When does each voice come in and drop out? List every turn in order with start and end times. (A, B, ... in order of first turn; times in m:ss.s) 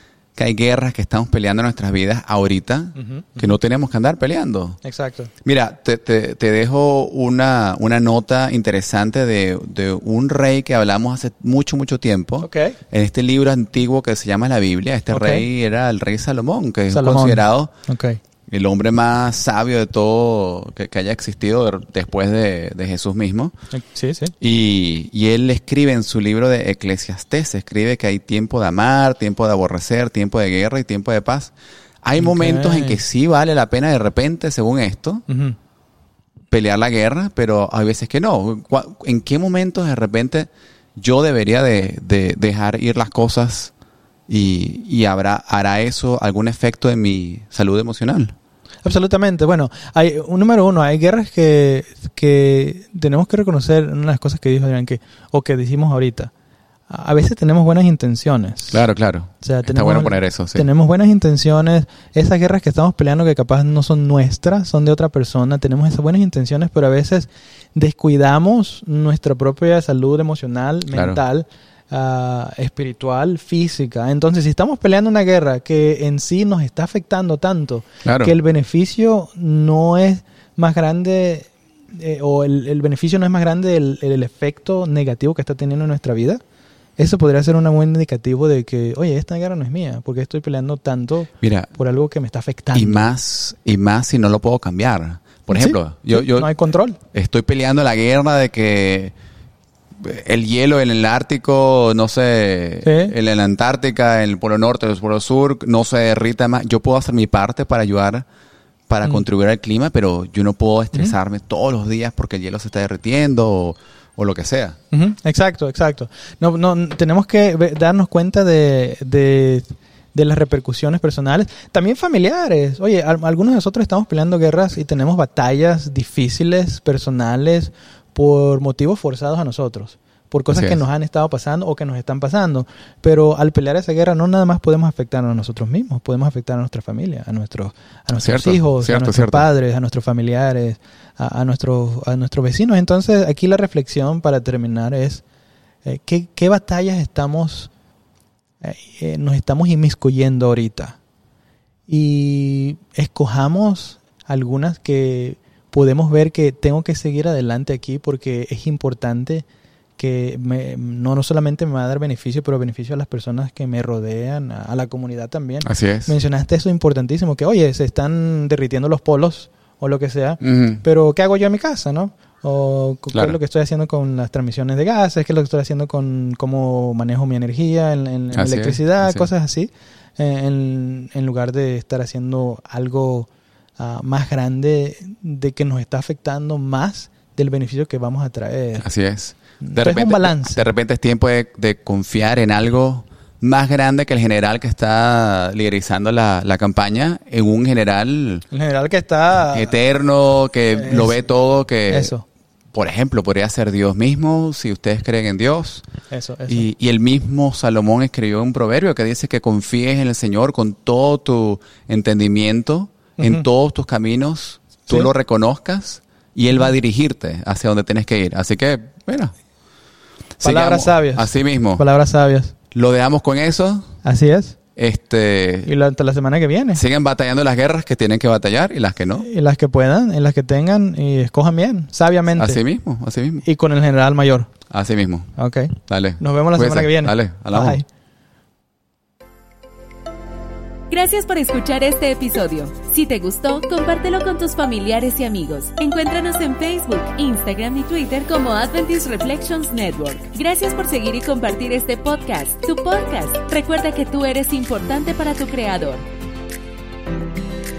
0:00.4-0:04.8 A
0:03.0-0:03.5 B
0:04.8-0:05.3 B
0:05.4-0:17.7 A
0:12.4-0:12.8 B
0:15.1-0:15.5 B
0:16.9-0:18.2 B
0:18.5-0:23.5 A
0:23.7-0:24.3 B
0:24.4-0:31.5 A
0:32.0-0:35.2 A
0:32.2-0:33.0 B
0:35.3-0:35.6 B
0:36.5-0:43.7 A
0:44.3-0:48.3 A
0:48.8-0:56.3 B
0:56.9-0:58.8 B
0:58.7-1:00.7 A
0:59.4-1:26.4 B
1:10.9-1:11.2 A
1:18.0-1:18.3 A
1:27.0-1:33.1 B
1:31.4-1:31.7 A
1:32.7-1:36.5 A
1:35.5-1:37.0 B
1:37.1-1:39.1 A
1:40.0-1:48.2 A
1:42.8-1:43.2 B
1:48.9-1:54.8 A
1:54.9-2:25.2 B
2:10.5-2:10.8 A
2:18.2-2:19.5 A
2:25.8-2:27.7 B
2:28.6-2:31.0 B
2:31.9-2:39.4 B
2:40.0-3:08.9 B
2:45.6-2:46.1 A
2:50.4-2:50.8 A
2:58.3-2:59.3 A
3:08.8-3:18.4 A
3:09.6-3:10.6 B
3:18.5-3:19.8 B
3:19.5-3:22.1 A
3:20.7-3:21.2 B
3:21.9-3:22.2 B
3:22.7-3:25.8 A
3:26.1-3:26.6 B
3:26.5-3:39.3 A
3:33.2-3:33.5 B
3:40.4-3:41.8 A
3:40.4-3:42.5 B
3:42.7-3:43.9 A
3:44.0-3:44.6 B
3:44.8-3:45.7 A
3:45.6-3:46.8 B
3:46.7-3:49.3 A
3:49.2-3:52.6 B
3:52.3-3:53.4 A
3:53.4-3:54.5 B
3:54.7-3:55.3 A
3:55.4-3:57.8 B
3:55.9-3:57.8 A
4:00.9-4:16.0 C